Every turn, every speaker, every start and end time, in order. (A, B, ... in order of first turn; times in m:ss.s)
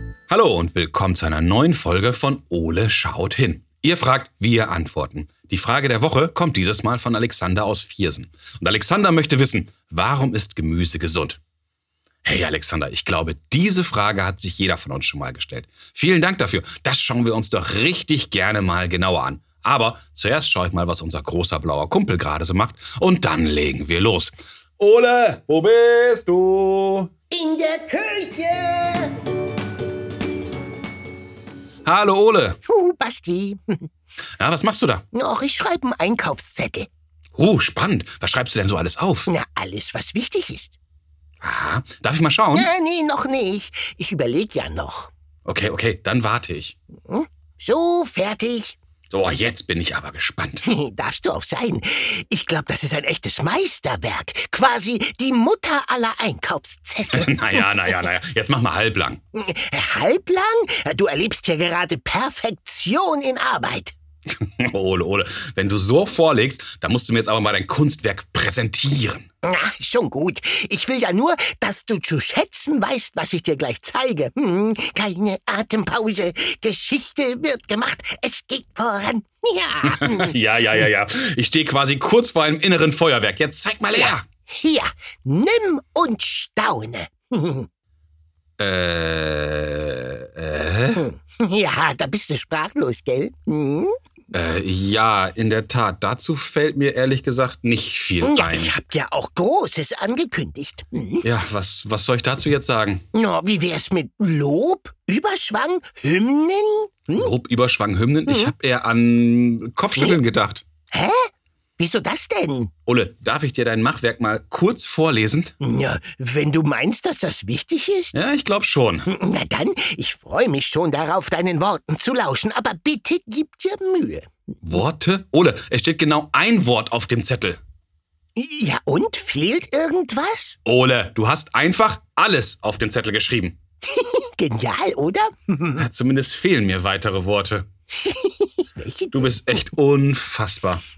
0:00.3-0:11.4 A
0:12.2-0:27.1 A
0:27.3-0:29.1 B
0:31.8-0:32.6 A
0:32.7-0:33.9 B
0:34.4-0:35.0 A
0:35.1-0:36.9 B
0:37.4-0:39.3 A
0:39.3-0:40.7 B
0:41.4-0:42.7 A
0:42.5-0:45.1 B
0:45.5-0:46.8 A
0:47.1-0:48.8 B
0:49.1-0:50.6 A
0:50.6-0:57.6 B
0:57.1-0:59.2 A
0:59.3-1:03.9 B
1:04.4-1:09.3 A
1:09.4-1:20.4 B
1:19.9-1:24.2 A
1:24.0-1:27.7 B
1:28.6-1:31.1 A
1:31.0-1:34.0 B
1:34.3-1:38.7 A
1:38.2-1:41.2 B
1:41.2-1:43.0 A
1:43.1-1:47.3 B
1:47.1-1:50.6 A
1:48.3-1:48.5 B
1:50.0-1:50.2 B
1:50.9-1:51.2 B
1:51.8-1:52.7 B
1:52.9-1:55.5 A
1:55.6-1:58.1 B
1:58.1-1:59.1 A
1:59.1-2:04.3 B
2:04.6-2:07.6 A
2:08.4-2:10.6 B
2:10.7-2:13.6 A
2:13.9-2:15.9 B
2:15.8-2:17.7 A
2:18.0-2:19.4 B
2:19.1-2:20.8 A